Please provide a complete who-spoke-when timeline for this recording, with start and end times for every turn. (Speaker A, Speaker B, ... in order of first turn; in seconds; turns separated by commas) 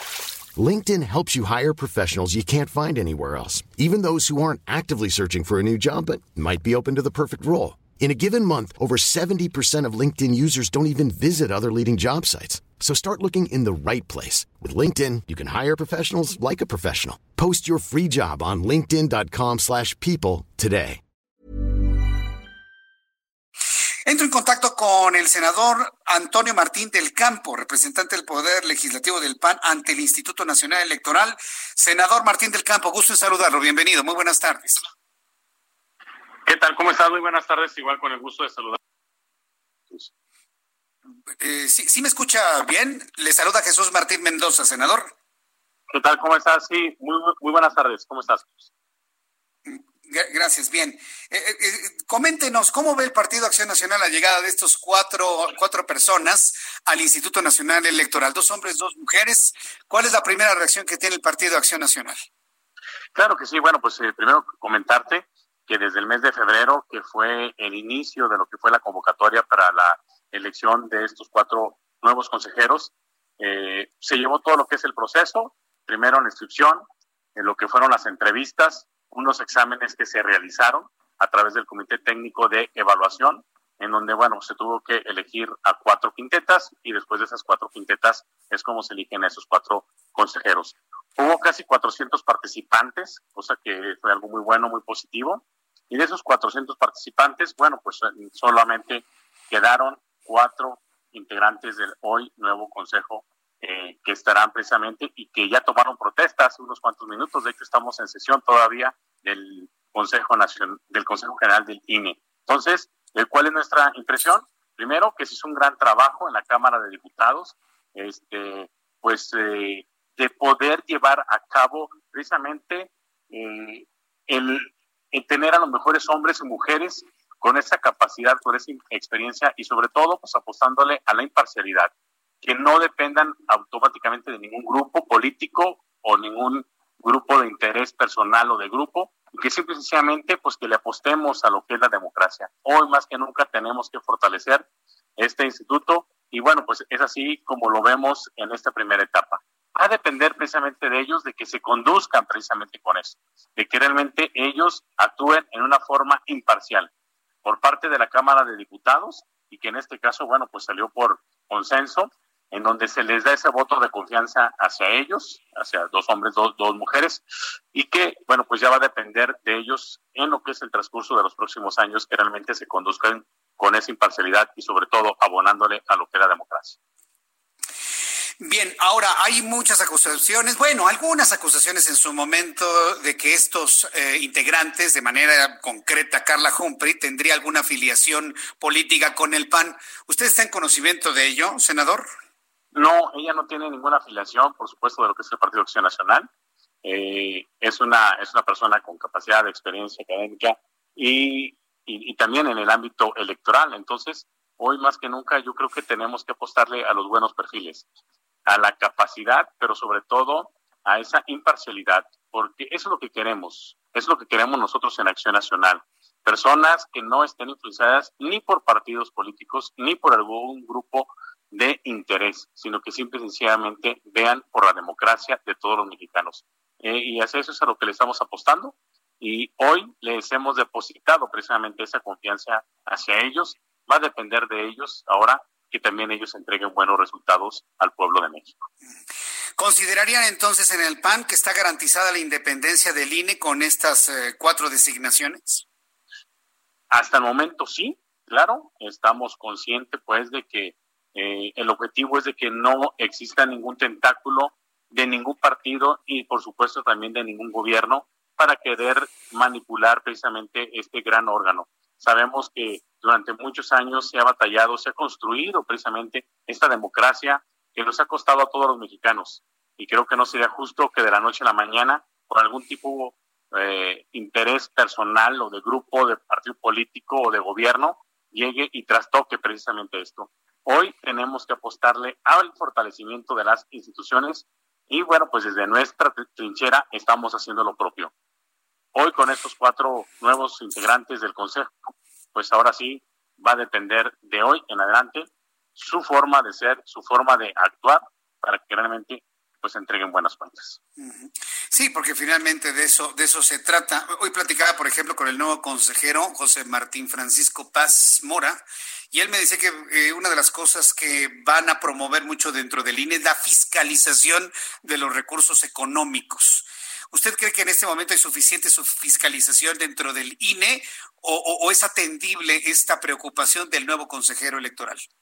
Speaker A: 0.6-21.0, Speaker B: 24.1-34.8, Speaker C: 36.5-38.8, Speaker B: 41.4-45.1, Speaker C: 45.9-48.7, Speaker B: 49.7-62.1, Speaker C: 63.1-76.8, Speaker C: 77.4-131.9, Speaker C: 132.4-144.7, Speaker C: 145.2-156.9, Speaker C: 157.4-176.8, Speaker B: 178.4-192.0, Speaker C: 192.7-196.3, Speaker C: 196.8-207.9, Speaker C: 208.5-238.7, Speaker B: 239.6-245.6, Speaker C: 246.9-288.1, Speaker C: 288.9-300.8, Speaker B: 301.0-308.6, Speaker B: 309.1-325.0